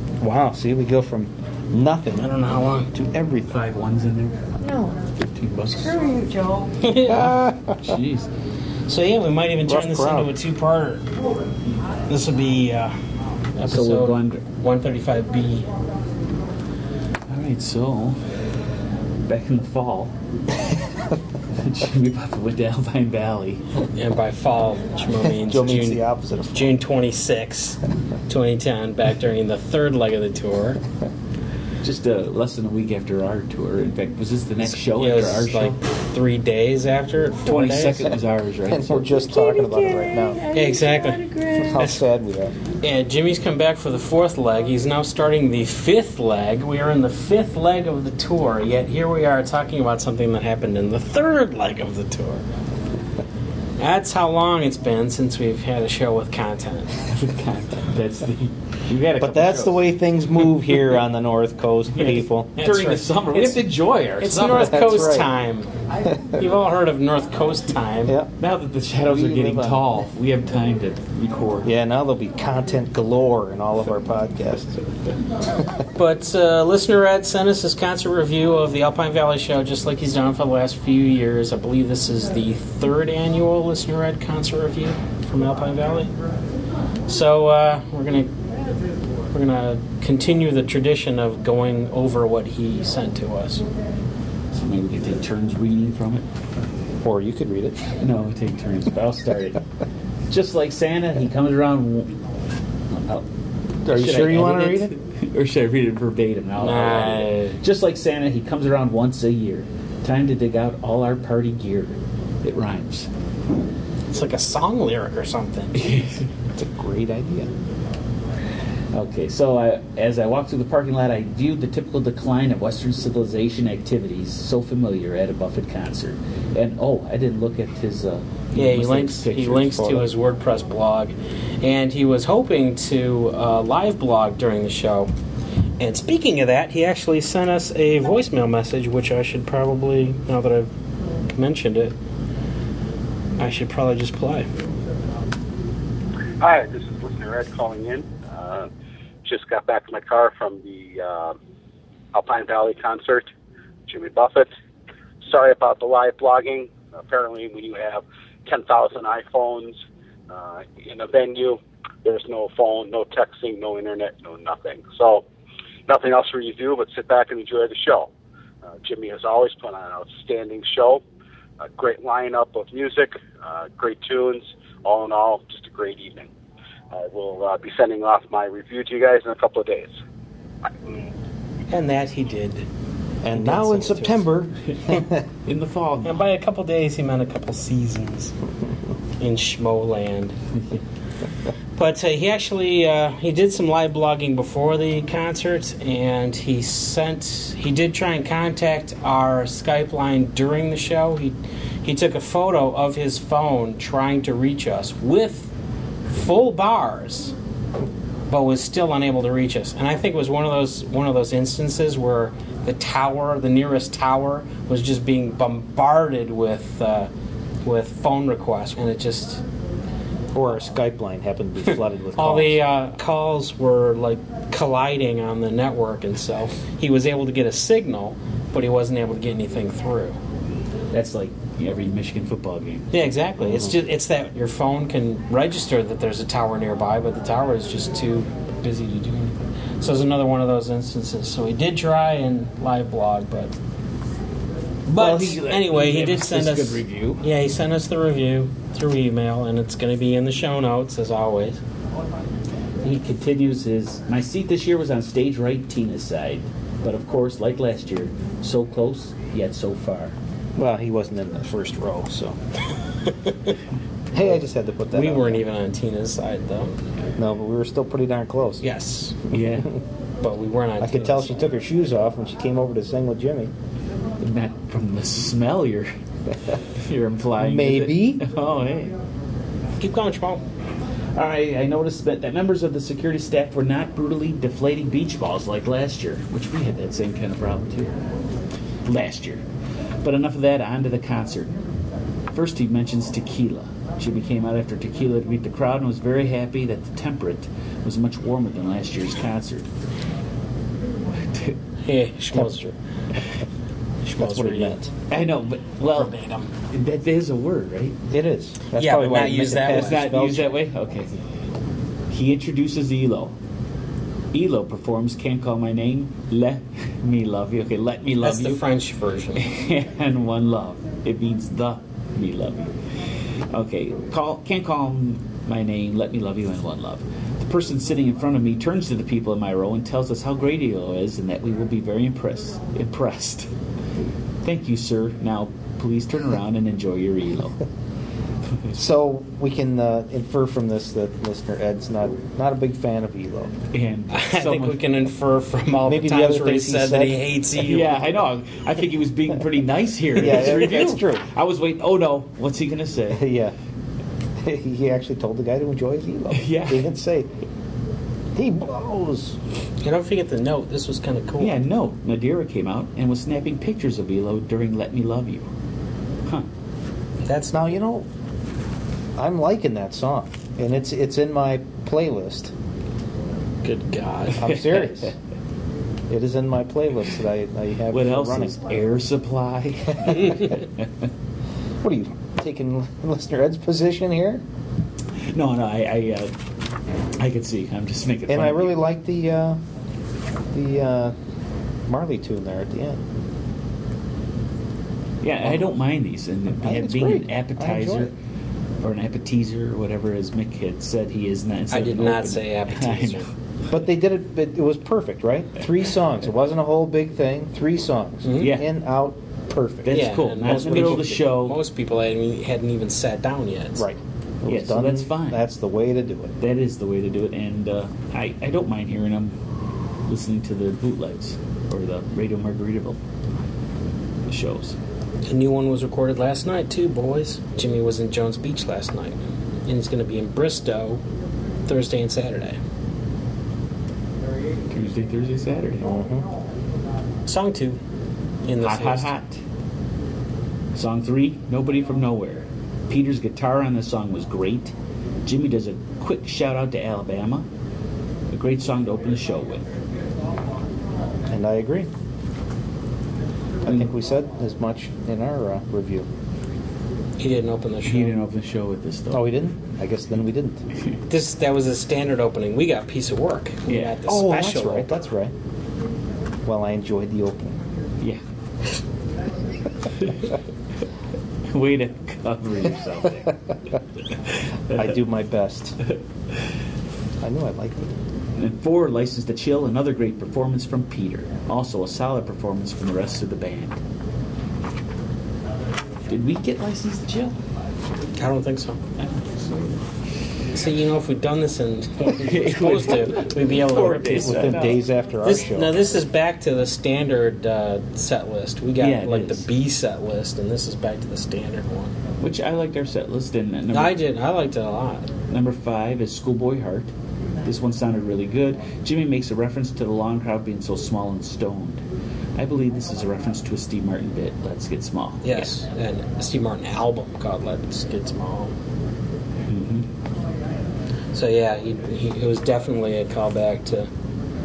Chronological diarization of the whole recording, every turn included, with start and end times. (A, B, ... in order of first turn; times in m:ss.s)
0:00.2-0:02.3 A
0:02.2-0:02.9 B
0:02.9-0:03.6 A
0:03.4-0:04.5 C
0:04.6-0:05.0 D
0:05.2-0:06.0 C
0:05.7-0:06.8 D
0:06.8-0:07.2 B
0:07.0-0:08.3 C
0:07.3-0:07.7 A
0:08.9-0:11.0 B
0:09.6-0:10.3 A
0:12.1-0:12.9 B
0:13.6-0:15.7 B
0:13.7-0:14.4 C
0:17.3-0:18.3 C
0:19.2-0:20.1 C
0:21.6-0:23.6 C
0:23.9-0:26.0 B
0:25.2-0:26.8 A
0:26.5-0:30.8 B
0:31.8-0:35.8 C
0:34.6-0:38.1 B
0:37.4-0:39.1 C
0:38.7-0:40.4 A
0:39.2-0:41.8 D
0:40.5-0:42.0 B
0:41.6-0:42.5 A
0:42.8-0:52.4 B
0:53.8-0:56.9 B
0:57.1-0:59.9 C
0:59.2-1:02.5 A
1:01.9-1:04.9 C
1:02.6-1:03.6 B
1:04.2-1:05.7 B
1:04.6-1:05.3 A
1:06.4-1:08.1 B
1:08.4-1:11.7 C
1:09.1-1:09.8 A
1:11.6-1:14.8 A
1:16.0-1:26.1 B
1:27.1-1:28.3 B
1:29.3-1:33.6 B
1:34.5-1:36.3 C
1:37.0-1:37.8 A
1:38.0-1:39.6 C
1:40.3-1:42.1 C
1:43.8-1:44.9 A
1:43.9-1:53.1 C
1:46.6-1:47.6 B
1:54.1-1:55.9 B
1:55.7-1:56.3 C
1:56.6-1:57.5 A
1:58.9-2:10.0 C
2:08.5-2:15.1 B
2:15.8-2:20.7 B
2:21.3-2:21.9 B
2:23.4-2:24.5 B
2:26.4-2:28.7 E
2:29.2-2:31.4 E
2:32.1-2:33.3 E
2:33.9-2:34.5 E
2:35.2-2:45.2 E
2:45.9-2:48.1 E
2:48.8-2:51.0 E
2:51.6-2:56.3 E
2:56.9-2:59.9 E
3:01.7-3:02.6 B
3:03.2-3:05.2 A
3:03.3-3:04.3 B
3:05.4-3:06.2 C
3:06.0-3:08.3 B
3:09.2-3:10.4 B
3:11.8-3:25.5 B
3:26.1-3:27.3 B
3:28.3-3:37.1 B
3:37.6-3:39.4 B
3:40.3-3:42.6 A
3:42.2-3:50.2 B
3:50.9-3:52.9 C
3:52.9-4:03.5 B
4:04.8-4:07.2 C
4:05.0-4:11.6 B
4:12.8-4:20.1 C
4:20.6-4:22.4 A
4:23.2-4:23.5 B
4:24.1-4:25.4 A
4:24.9-4:26.7 B
4:27.2-4:28.6 A
4:28.6-4:29.2 B
4:29.3-4:29.8 C
4:30.2-4:31.4 B
4:30.8-4:33.5 A
4:34.2-4:35.9 C
4:36.8-4:38.9 C
4:37.4-4:38.2 A
4:39.8-4:40.4 B
4:41.2-4:48.0 C
4:48.8-4:49.4 C
4:50.0-4:51.5 C
4:52.3-4:59.7 C
5:01.2-5:01.6 C
5:01.8-5:02.7 B
5:04.0-5:04.9 B
5:04.2-5:04.9 A
5:05.1-5:06.1 C
5:05.9-5:06.5 B
5:06.7-5:08.0 C
5:08.1-5:10.5 A
5:08.7-5:10.1 B
5:09.6-5:11.1 C
5:12.1-5:13.3 C
5:14.3-5:18.6 C
5:18.2-5:19.4 B
5:19.4-5:22.8 C
5:23.5-5:33.5 C
5:34.4-5:37.6 C
5:38.5-5:38.8 C
5:38.7-5:43.5 A
5:43.7-5:44.8 C
5:44.1-5:47.9 B
5:45.8-5:47.2 A
5:47.6-5:53.2 C
5:50.1-5:51.2 A
5:53.1-5:53.5 A
5:54.4-5:57.3 A
5:56.3-5:56.9 C
5:58.3-5:59.4 A
5:59.8-6:01.5 B
6:01.4-6:05.4 C
6:07.2-6:07.6 B
6:07.5-6:08.1 A
6:09.2-6:12.5 A
6:13.6-6:14.4 B
6:14.4-6:15.1 A
6:14.4-6:15.1 C
6:16.1-6:18.6 A
6:17.9-6:20.9 C
6:21.8-6:24.4 A
6:25.3-6:26.3 C
6:27.2-6:28.8 C
6:28.3-6:29.6 A
6:30.5-6:31.1 A
6:31.9-6:33.0 A
6:35.2-6:38.1 C
6:36.6-6:38.1 A
6:38.8-6:43.2 C
6:41.7-6:43.2 B
6:43.7-6:51.0 A
6:48.2-6:48.5 B
6:48.4-6:48.7 C
6:49.8-6:51.6 C
6:49.9-6:53.8 B
6:53.8-6:56.3 A
6:54.5-6:55.4 C
6:56.4-6:59.3 C
7:00.1-7:03.0 C
7:04.3-7:04.8 C
7:05.2-7:11.0 B
7:11.6-7:12.6 B
7:14.7-7:15.9 C
7:15.8-7:16.2 A
7:17.3-7:17.8 B
7:18.4-7:19.1 B
7:18.6-7:19.4 C
7:20.7-7:24.7 C
7:25.2-7:27.4 C
7:28.3-7:29.6 C
7:31.3-7:31.9 A
7:33.6-7:36.1 A
7:37.2-7:38.1 B
7:37.8-7:39.4 C
7:39.1-7:40.6 A
7:41.1-7:44.9 B
7:43.7-7:44.0 C
7:44.1-7:45.3 A
7:46.4-7:47.6 A
7:50.0-7:50.3 C
7:51.5-7:53.4 C
7:54.7-7:54.9 C
7:54.7-7:55.8 A
7:57.2-7:57.9 A
7:58.4-8:03.8 C
8:06.1-8:07.4 C
8:08.2-8:08.8 B
8:09.0-8:09.8 C
8:10.5-8:14.5 B
8:12.2-8:14.8 C
8:14.2-8:15.7 A
8:15.2-8:21.9 B
8:18.8-8:19.5 C
8:22.2-8:24.0 C
8:23.7-8:25.1 B
8:25.3-8:26.9 C
8:27.4-8:31.8 C
8:32.4-8:35.5 C
8:35.2-8:38.5 B
8:39.5-8:39.8 C
8:41.1-8:43.9 B